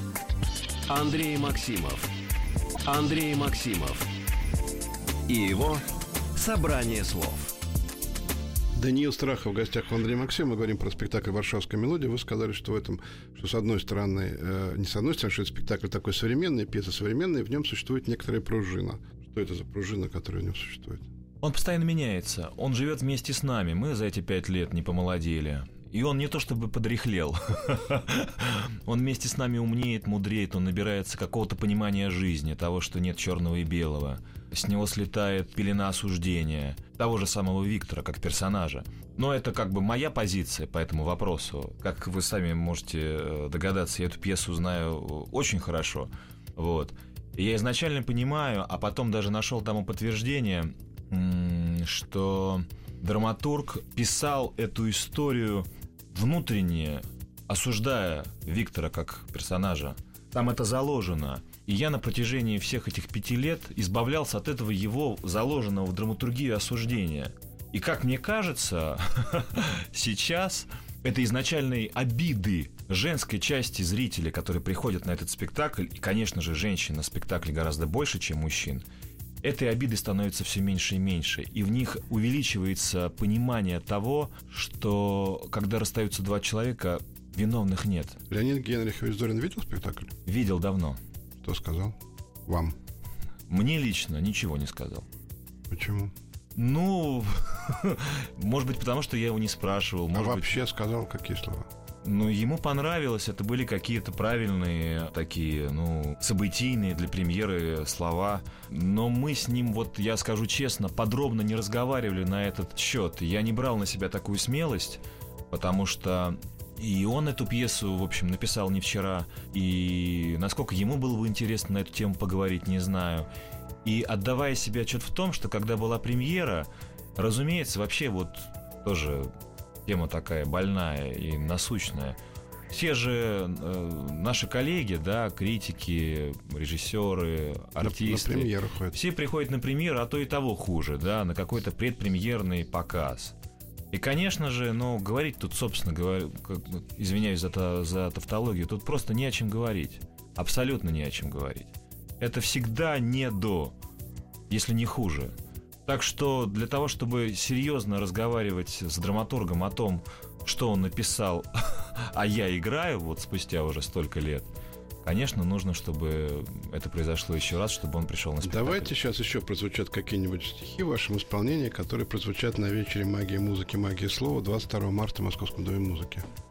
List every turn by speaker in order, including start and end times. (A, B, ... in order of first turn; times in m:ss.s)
0:00.9-0:02.1 A
0:02.8-0:04.1 A
0:05.3-0:05.8 A
0:06.4-0:07.5 A
0:08.8-0:21.1 B
0:21.4-1:18.8 C
1:19.4-1:28.2 C
1:28.3-1:30.2 B
1:30.3-1:31.0 C
1:31.4-1:32.8 B
1:33.5-1:35.1 C
1:35.7-1:36.1 B
1:36.6-1:40.6 C
1:40.1-1:41.7 B
1:42.0-2:03.3 C
2:03.8-2:09.3 C
2:09.9-2:12.2 C
2:12.7-2:23.4 C
2:17.8-2:19.0 B
2:23.9-2:33.7 C
2:34.5-2:35.3 C
2:35.9-2:44.5 C
2:45.0-2:48.9 C
2:48.4-2:56.3 B